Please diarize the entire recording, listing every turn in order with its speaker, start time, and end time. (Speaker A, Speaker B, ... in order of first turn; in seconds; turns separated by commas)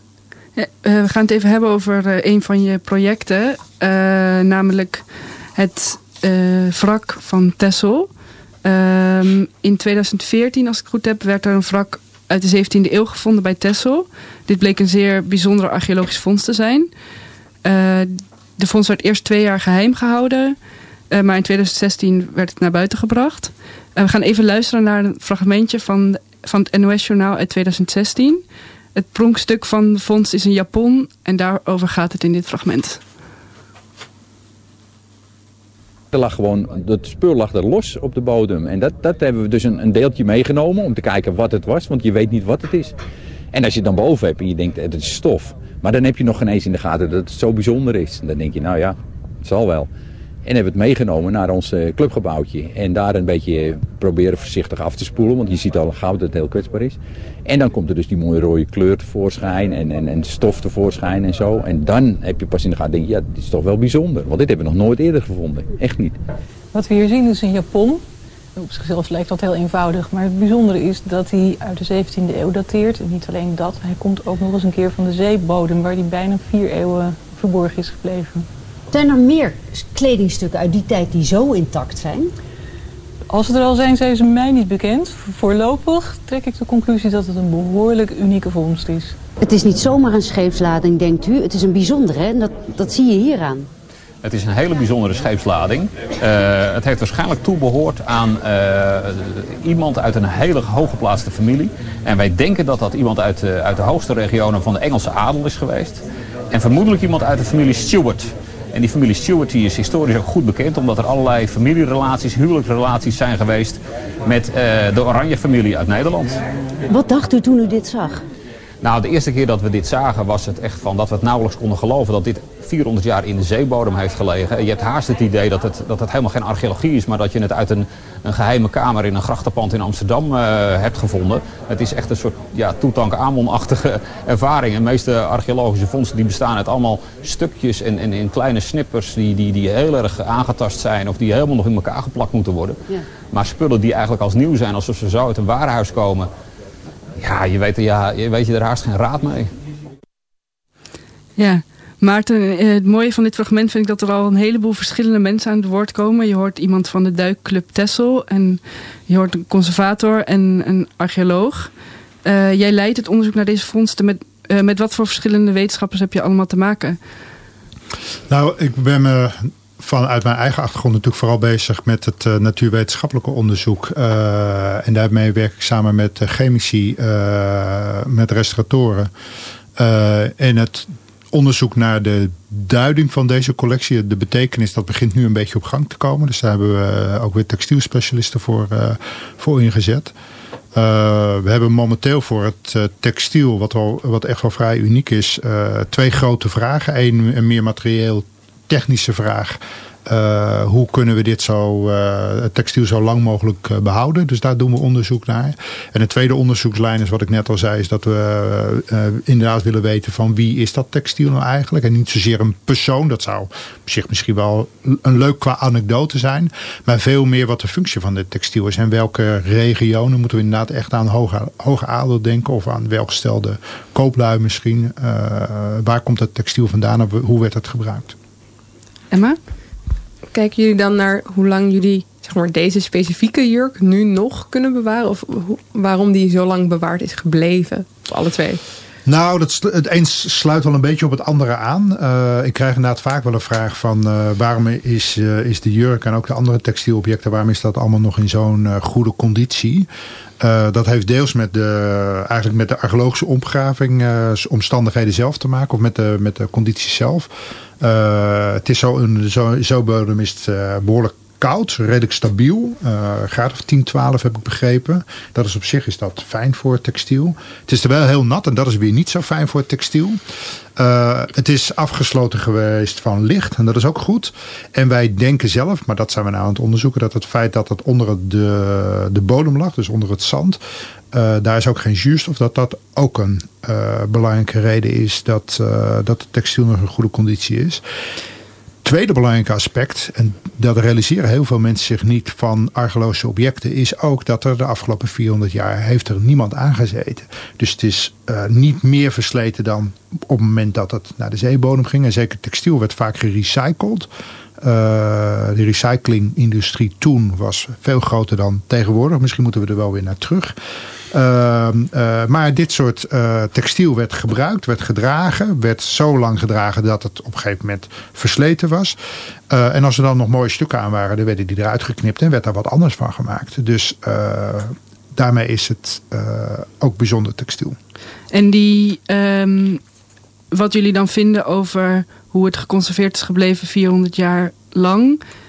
Speaker A: 0.6-8.1, Speaker A: 8.6-16.9, Speaker A: 17.6-20.6, Speaker A: 21.1-28.4, Speaker A: 28.9-33.0, Speaker B: 36.1-43.0, Speaker B: 43.5-49.9, Speaker B: 50.4-66.2, Speaker C: 66.7-68.0, Speaker C: 68.5-78.5, Speaker D: 78.9-82.3, Speaker C: 83.3-89.2, Speaker D: 89.4-93.7, Speaker E: 94.2-116.4, Speaker D: 116.9-118.2, Speaker E: 118.8-146.3, Speaker E: 147.2-149.5, Speaker A: 151.4-161.7, Speaker A: 162.2-167.0, Speaker F: 168.3-179.1, Speaker F: 179.8-190.1, Speaker F: 190.7-228.1, Speaker A: 229.1-229.4, Speaker G: 230.3-238.6, Speaker F: 239.0-249.9, Speaker F: 250.4-270.2, Speaker F: 270.8-280.6, Speaker F: 281.1-287.8, Speaker F: 288.8-304.1, Speaker F: 304.6-310.5, Speaker F: 311.1-319.0, Speaker F: 319.5-327.8, Speaker A: 328.3-329.8, Speaker A: 330.5-335.2